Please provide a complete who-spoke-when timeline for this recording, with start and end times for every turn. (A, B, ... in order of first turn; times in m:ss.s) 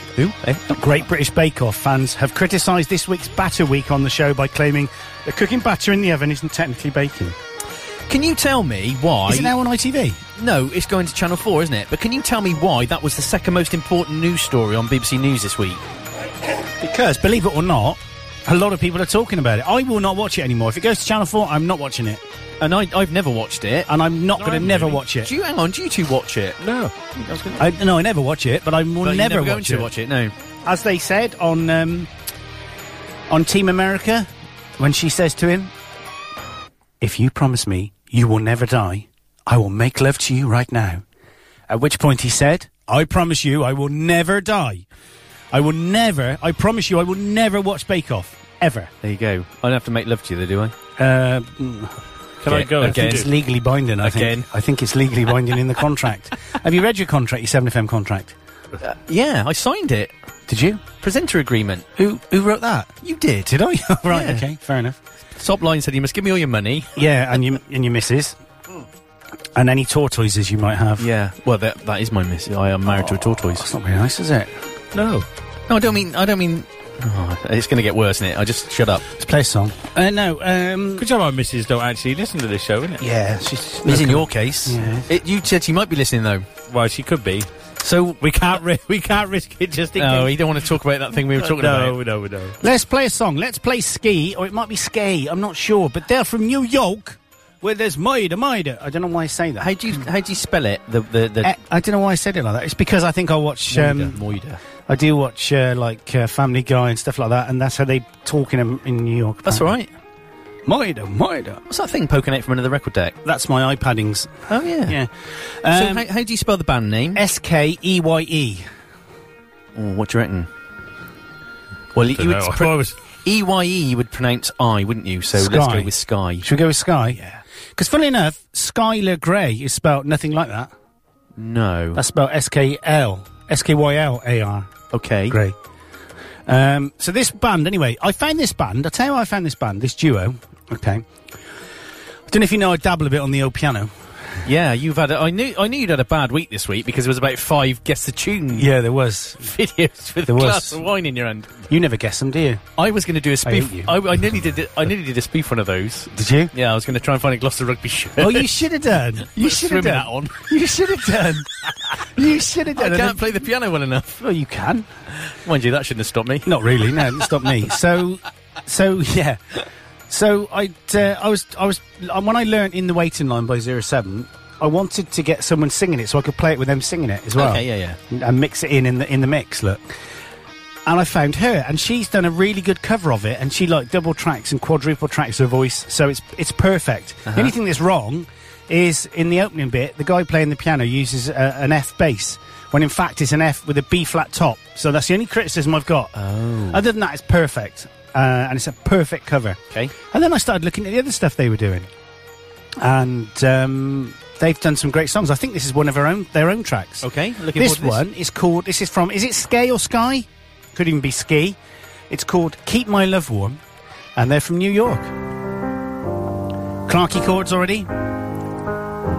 0:00.2-0:00.8 A
0:00.7-0:07.4 B
0:08.1-0:09.6 A
0:09.3-0:10.2 B
0:10.4-0:15.8 A
0:16.6-0:22.2 B
0:22.6-0:23.9 A
0:23.9-0:25.3 B
0:24.4-0:25.0 C
0:25.2-0:26.6 A
0:26.6-0:26.9 C
0:27.2-0:27.7 A
0:27.6-0:29.9 B
0:29.0-0:30.3 A
0:30.6-0:32.1 B
0:33.3-0:35.7 B
0:37.0-0:41.0 B
0:41.7-0:44.9 B
0:45.5-0:48.9 B
0:49.0-0:50.7 A
0:51.0-0:51.9 B
0:52.4-0:53.3 C
0:52.5-0:53.3 A
0:52.8-0:58.4 B
0:54.0-0:54.5 A
0:58.8-1:00.1 A
1:00.5-1:00.8 B
1:01.0-1:01.9 A
1:02.0-1:02.9 B
1:03.0-1:03.5 A
1:03.5-1:05.0 B
1:04.1-1:04.4 A
1:05.4-1:06.9 A
1:07.0-1:08.4 B
1:09.6-1:11.1 B
1:11.0-1:13.7 A
1:12.9-1:14.5 B
1:14.9-1:15.3 C
1:15.7-1:19.1 A
1:19.2-1:21.1 B
1:21.0-1:23.0 C
1:23.0-1:25.1 B
1:23.8-1:26.5 A
1:26.7-1:27.5 C
1:27.8-1:28.2 A
1:28.2-1:30.4 C
1:30.0-1:32.0 A
1:31.4-1:32.6 C
1:32.6-1:39.7 B
1:39.6-1:41.5 A
1:41.4-1:44.2 B
1:43.7-1:44.6 A
1:44.9-1:49.7 B
1:49.5-1:49.9 A
1:50.7-1:51.6 B
1:51.7-1:53.2 A
1:53.2-1:55.1 B
1:54.5-1:55.0 A
1:55.6-1:56.1 B
1:55.7-1:57.2 A
1:57.2-1:58.7 B
1:59.8-2:00.5 A
2:02.0-2:06.5 A
2:02.1-2:03.0 C
2:05.4-2:07.2 B
2:07.1-2:07.4 A
2:07.8-2:10.7 B
2:11.4-2:12.0 A
2:12.0-2:14.7 B
2:14.9-2:15.4 A
2:15.3-2:15.6 B
2:16.5-2:21.1 B
2:22.3-2:23.9 B
2:24.4-2:28.7 A
2:28.6-2:29.5 B
2:29.4-2:31.7 A
2:30.3-2:30.8 B
2:31.7-2:32.6 B
2:32.8-2:38.5 A
2:33.4-2:34.0 B
2:36.1-2:36.5 B
2:38.2-2:41.5 B
2:39.3-2:44.2 A
2:42.0-2:43.3 B
2:44.2-2:44.9 B
2:45.2-2:47.3 A
2:46.4-2:49.5 B
2:50.1-2:59.9 B
2:57.4-2:58.0 A
3:00.9-3:16.1 B
3:07.3-3:07.5 A
3:16.2-3:16.8 A
3:16.7-3:21.9 B
3:22.8-3:31.6 B
3:27.0-3:28.0 A
3:32.1-3:33.6 B
3:34.2-3:35.1 B
3:36.9-3:37.9 B